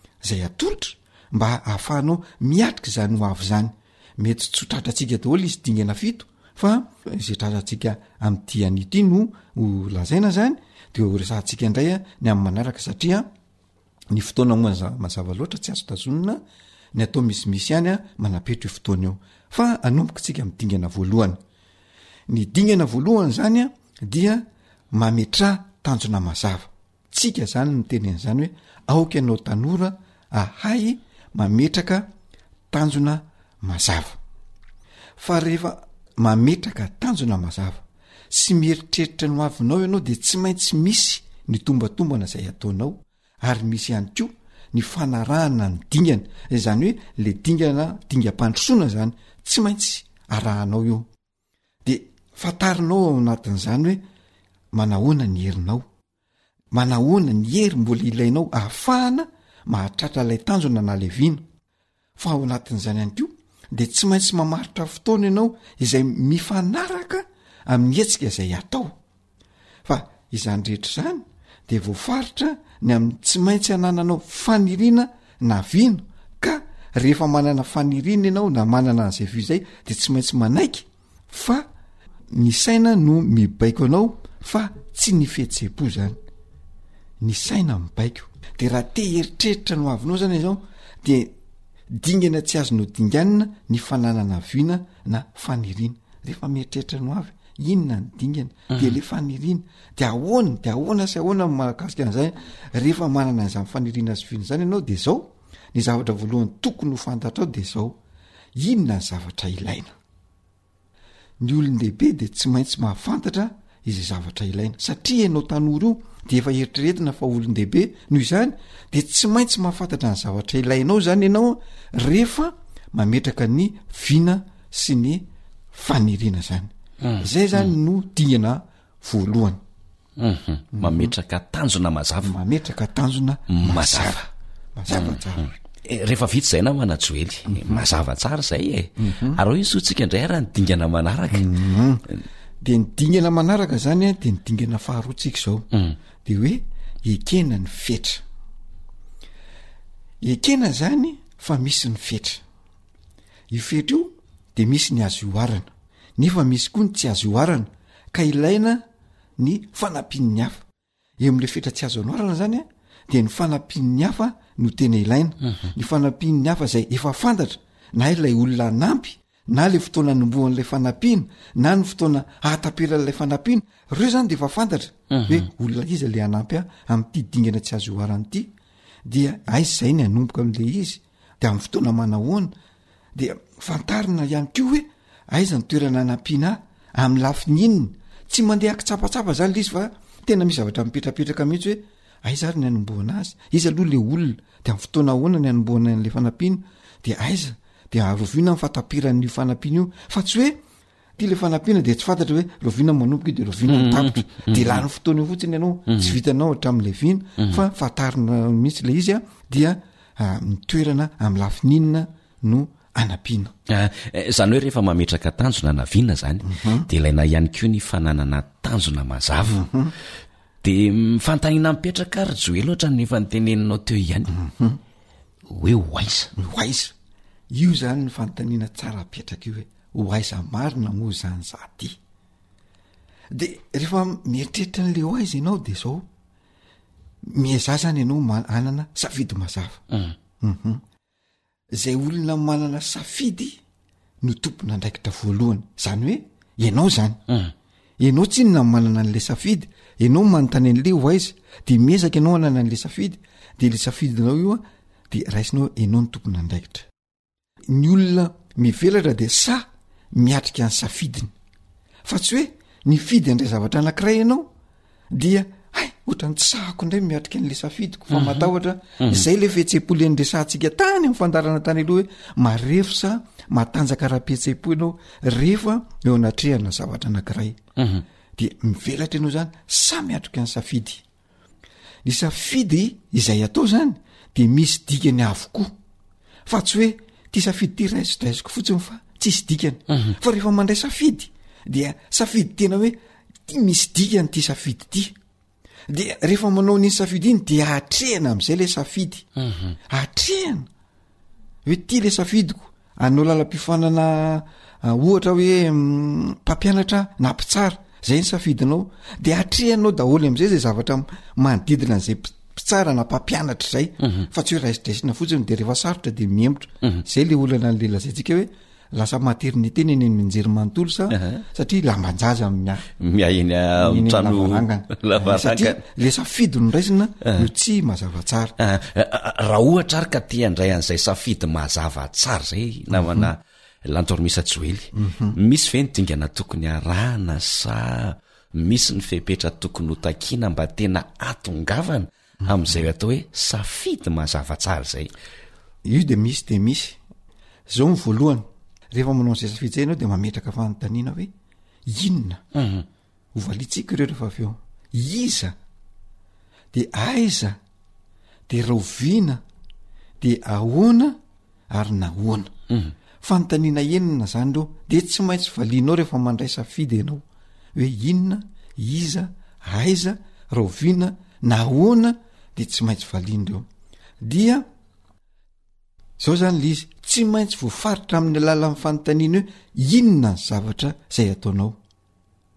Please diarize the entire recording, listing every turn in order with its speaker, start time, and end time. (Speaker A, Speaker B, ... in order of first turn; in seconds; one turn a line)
Speaker A: 0.2-13.3
Speaker A: 14.1-16.4
Speaker A: 16.9-21.4
Speaker A: 22.3-32.1
Speaker A: 32.7-34.2
Speaker A: 35.2-51.1
Speaker A: 51.8-54.0
Speaker A: 54.7-55.8
Speaker A: 56.7-61.4
Speaker A: 62.2-68.9
Speaker A: 69.8-81.7
Speaker A: 82.3-86.2
Speaker A: 87.2-91.3
Speaker A: 91.9-108.0
Speaker A: 108.5-109.9
Speaker A: 111.4-129.6
Speaker B: 130.2-132.4
Speaker A: 130.7-131.1
Speaker A: 132.2-135.5
Speaker B: 133.5-134.2
Speaker B: 134.9-135.2
Speaker B: 135.8-141.5
Speaker A: 137.5-137.8
Speaker A: 139.0-139.4
Speaker A: 141.3-142.1
Speaker A: 142.6-145.7
Speaker A: 146.2-148.2
Speaker A: 150.2-152.4
Speaker A: 153.5-158.8
Speaker A: 159.4-160.6
Speaker A: 161.2-178.5
Speaker B: 175.1-175.4
Speaker A: 179.1-182.5
Speaker A: 183.2-200.6
Speaker A: 201.2-213.5
Speaker B: 203.7-204.7
Speaker B: 205.9-206.1
Speaker B: 213.7-219.6
Speaker A: 216.4-216.9
Speaker A: 219.4-219.9
Speaker B: 220.6-224.3
Speaker A: 224.3-224.8
Speaker B: 225.5-226.3
Speaker A: 226.3-226.9
Speaker A: 227.5-232.0
Speaker A: 233.3-236.1
Speaker A: 237.3-239.8
Speaker A: 240.4-240.8
Speaker A: 241.8-243.6
Speaker A: 244.2-247.2
Speaker A: 248.0-256.9
Speaker A: 257.7-261.3
Speaker A: 262.0-264.5
Speaker A: 265.1-277.6
Speaker B: 277.8-278.0
Speaker A: 278.4-281.0
Speaker A: 282.0-285.7
Speaker A: 286.4-295.1
Speaker A: 295.9-299.2
Speaker B: 299.4-299.7
Speaker A: 299.9-300.7
Speaker A: 301.6-322.9
Speaker B: 321.1-321.4
Speaker B: 323.0-325.8
Speaker A: 323.8-328.5
Speaker B: 327.2-327.5
Speaker B: 328.6-345.1
Speaker A: 332.9-333.3
Speaker A: 334.9-335.4
Speaker A: 342.4-342.9
Speaker A: 345.8-347.0
Speaker A: 347.7-351.3
Speaker A: 351.9-352.4
Speaker B: 352.6-352.8
Speaker A: 353.3-355.5
Speaker A: 356.7-357.6
Speaker A: 358.5-359.4
Speaker A: 360.2-361.2
Speaker A: 361.7-362.5
Speaker A: 363.2-367.2
Speaker A: 367.7-373.6
Speaker A: 374.2-374.6
Speaker A: 376.2-381.8